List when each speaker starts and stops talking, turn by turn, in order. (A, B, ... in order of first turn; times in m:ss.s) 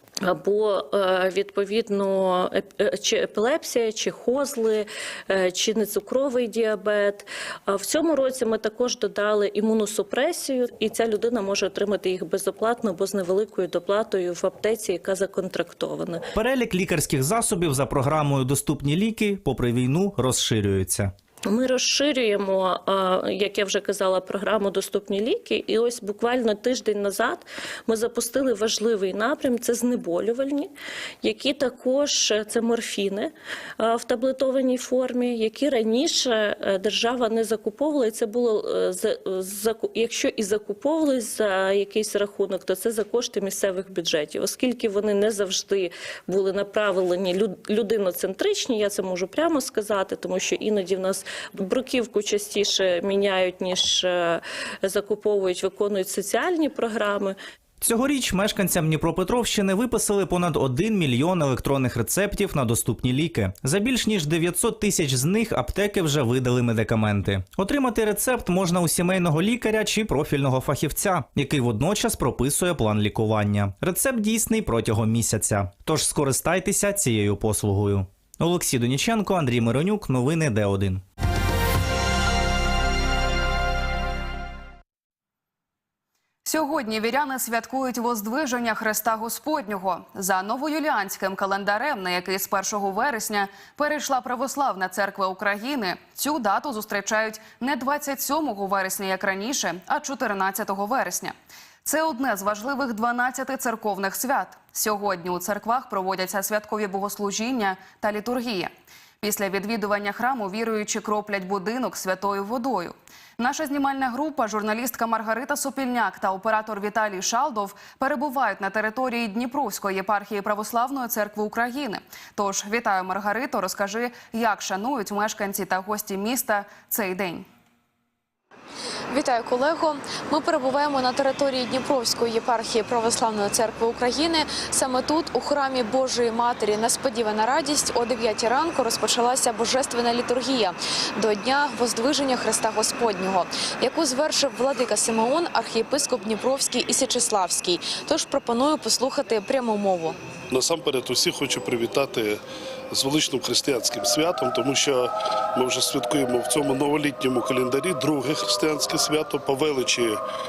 0:00.2-0:16.2 A
0:16.4-0:21.1 B
0:21.5-0:30.7 A
0:31.2-0:57.4 A
0:57.8-1:21.0 B
1:26.4-1:41.3 C
1:41.8-2:07.4 C
2:09.1-2:30.2 D
2:30.5-2:32.4 E
2:32.9-2:40.2 E